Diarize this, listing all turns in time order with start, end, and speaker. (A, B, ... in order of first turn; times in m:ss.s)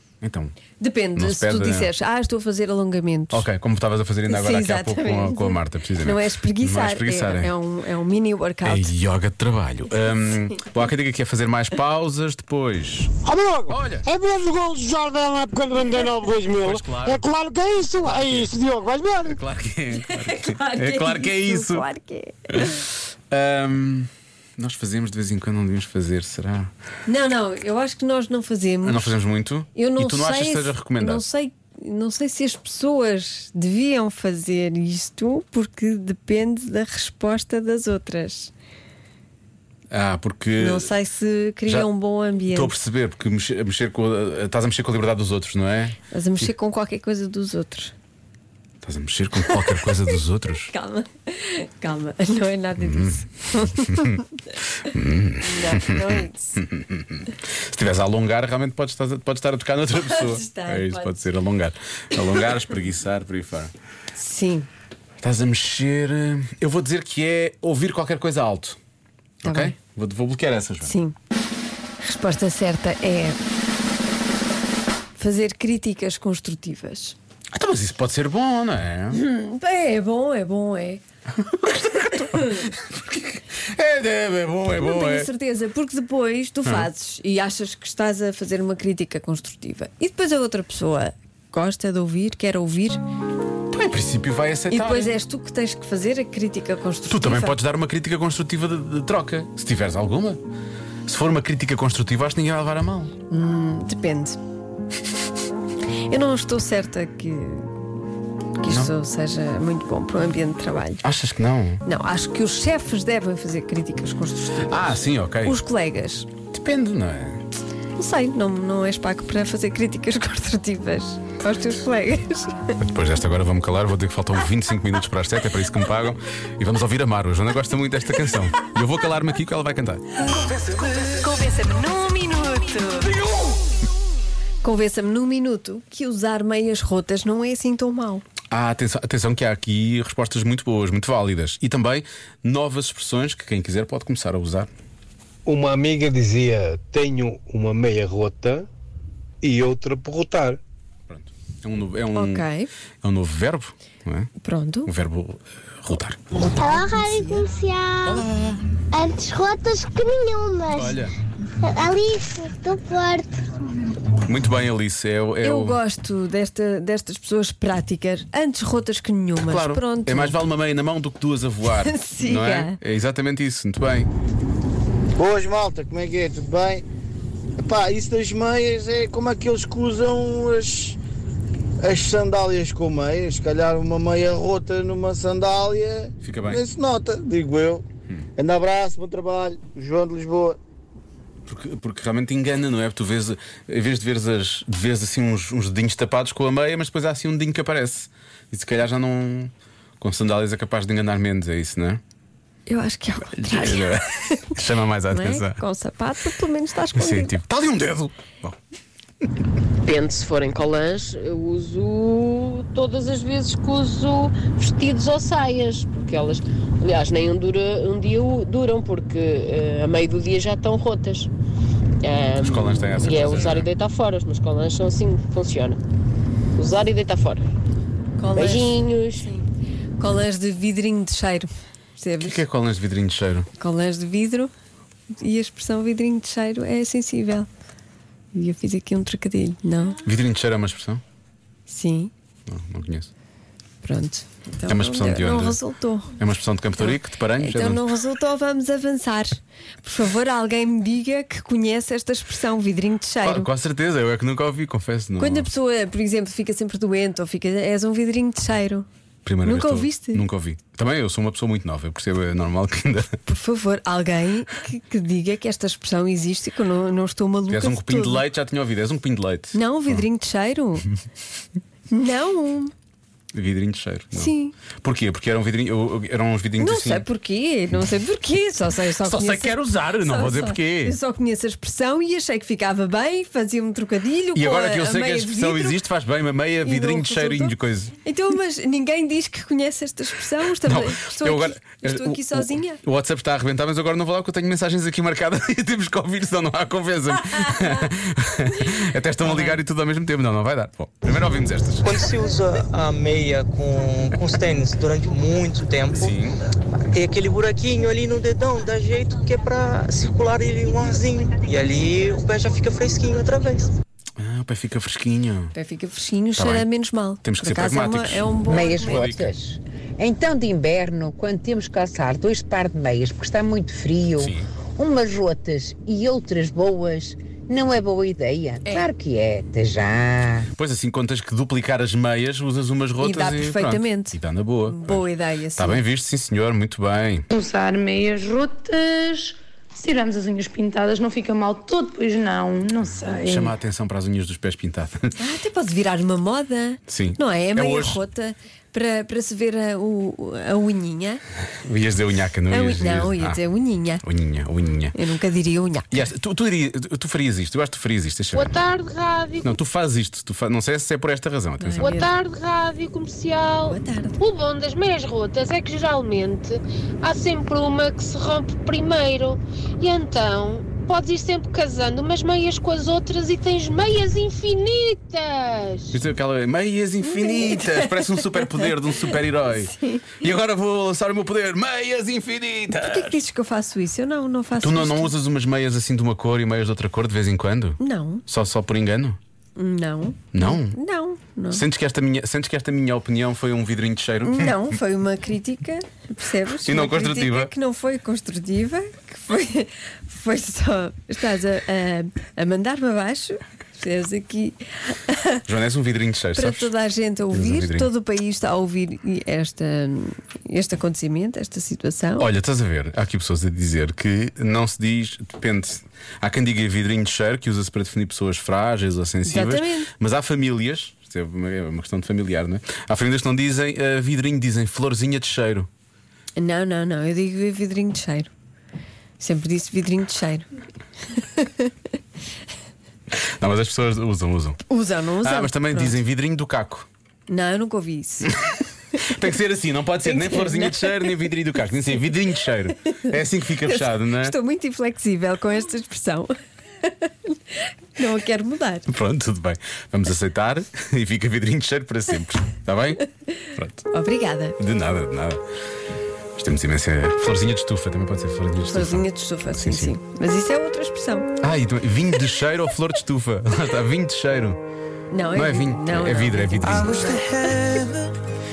0:00.2-0:00.5 A
0:00.8-0:03.4 B
0:01.1-0:01.9 A
0:03.3-0:07.5 A
0:04.3-0:08.9 B
0:08.6-0:13.2 A
0:13.2-0:19.4 C
0:13.7-0:14.1 A
0:16.5-0:17.3 A
0:18.0-0:18.5 A
0:19.2-0:21.9 A
0:19.9-0:22.6 B
0:22.5-0:26.7 A
0:27.1-0:29.1 B
0:28.8-0:31.2 A
0:29.7-0:38.5 B
0:39.9-0:40.9 A
0:40.6-0:42.7 B
0:42.5-0:46.5 A
0:46.1-0:47.9 B
0:48.8-0:50.7 A
0:49.4-0:49.8 B
0:50.7-0:54.3 B
0:52.8-0:53.2 A
0:53.7-0:54.2 A
0:54.8-1:03.7 A
0:55.4-0:56.6 B
1:00.0-1:01.3 B
1:04.2-1:04.7 B
1:05.2-1:08.8 A
1:09.4-1:10.9 A
1:09.4-1:09.8 B
1:10.8-1:11.2 B
1:12.0-1:13.4 B
1:15.2-1:17.2 B
1:17.5-1:19.2 A
1:19.1-1:21.0 B
1:21.3-1:25.3 A
1:22.3-1:22.7 B
1:24.8-1:33.0 B
1:33.7-1:35.1 A
1:34.7-1:37.6 B
1:37.1-1:40.4 A
1:41.0-1:43.1 A
1:43.3-1:44.4 B
1:46.1-1:47.7 B
1:48.6-1:51.0 B
1:51.0-1:51.8 A
1:51.8-1:56.3 B
1:54.7-1:55.6 A
1:56.5-1:57.4 A
1:58.0-2:02.8 B
2:02.8-2:10.0 A
2:11.1-2:13.2 B
2:14.6-2:18.2 B
2:18.5-2:24.7 A
2:25.4-2:28.7 D
2:29.4-2:30.6 D
2:31.1-2:32.5 A
2:32.1-2:32.7 B
2:33.0-2:34.3 A
2:34.4-2:34.9 B
2:34.8-2:36.2 A
2:36.3-2:38.2 E
2:38.0-2:38.6 A
2:38.9-2:41.0 E
2:40.7-2:41.1 A
2:41.6-2:43.4 E
2:44.2-2:45.8 A
2:45.4-2:50.4 B
2:49.4-2:54.1 A
2:51.8-2:52.8 B
2:55.2-2:56.8 C
2:57.6-3:01.0 C
3:01.8-3:07.8 C
3:06.2-3:06.6 A
3:08.4-3:10.6 C
3:11.4-3:22.0 A
3:22.7-3:24.6 B
3:23.4-3:25.6 A
3:25.1-3:27.3 B
3:26.9-3:28.6 A
3:29.8-3:41.3 F
3:42.0-3:45.8 F
3:42.4-3:43.7 A
3:46.6-3:47.4 F
3:48.2-3:49.4 B
3:48.3-3:49.3 F
3:50.0-3:52.4 B
3:52.2-3:53.5 A
3:53.6-3:54.5 B
3:55.1-3:57.5 B
3:58.3-4:00.0 B
4:00.0-4:01.0 A
4:01.7-4:02.1 B
4:02.5-4:03.1 A
4:03.8-4:06.1 B
4:04.7-4:05.6 A
4:06.2-4:07.8 A
4:06.8-4:13.5 B
4:13.2-4:15.5 A
4:15.2-4:18.9 B
4:19.2-4:23.2 A
4:19.4-4:20.2 B
4:23.2-4:28.2 B
4:27.5-4:30.0 A
4:29.5-4:30.9 B
4:31.9-4:32.7 B
4:33.3-4:37.0 A
4:34.1-4:34.5 B
4:36.6-4:45.8 B
4:39.0-4:41.0 A
4:44.3-4:47.9 A
4:46.6-4:52.8 B
4:50.6-5:01.9 A
4:59.2-4:59.6 B
5:01.8-5:06.2 G
5:06.0-5:06.4 A
5:06.8-5:13.7 G
5:14.2-5:15.5 A
5:15.5-5:19.0 B
5:16.4-5:16.7 A
5:17.2-5:19.3 A
5:18.5-5:30.5 H
5:24.2-5:24.5 A
5:30.6-5:37.3 A
5:33.0-5:35.8 B
5:37.3-5:43.5 I
5:42.9-5:45.1 A
5:45.2-5:51.2 B
5:46.9-5:48.0 A
5:51.6-5:53.4 A
5:52.5-5:54.0 B
5:54.0-5:54.9 A
5:54.9-5:56.0 B
5:55.9-5:58.5 A
5:58.3-5:59.5 J
5:59.4-6:01.9 A
6:01.6-6:02.1 B
6:01.8-6:16.0 J
6:03.7-6:04.2 B
6:15.9-6:23.2 A
6:17.0-6:20.1 B
6:22.8-6:25.1 B
6:24.6-6:29.2 A
6:27.8-6:28.2 B
6:29.6-6:31.6 B
6:30.3-6:30.8 A
6:31.5-6:34.7 A
6:34.2-6:45.4 B
6:36.6-6:37.5 A
6:45.5-6:46.7 A
6:46.3-6:52.3 B
6:47.3-6:47.9 A
6:52.2-7:05.7 A
6:59.2-6:59.9 B
7:06.4-7:08.3 B
7:09.2-7:10.5 B
7:11.2-7:11.7 B
7:13.1-7:14.6 A
7:14.6-7:16.0 B
7:15.2-7:16.9 A
7:17.3-7:18.3 B
7:18.3-7:24.4 A
7:20.0-7:21.3 B
7:23.7-7:27.4 B
7:28.0-7:28.9 B
7:28.9-7:33.8 A
7:33.9-7:34.6 B
7:34.6-7:35.4 A
7:36.4-7:39.9 A
7:38.6-7:41.3 B
7:41.4-7:44.6 A
7:45.1-7:47.1 B
7:45.3-7:47.7 A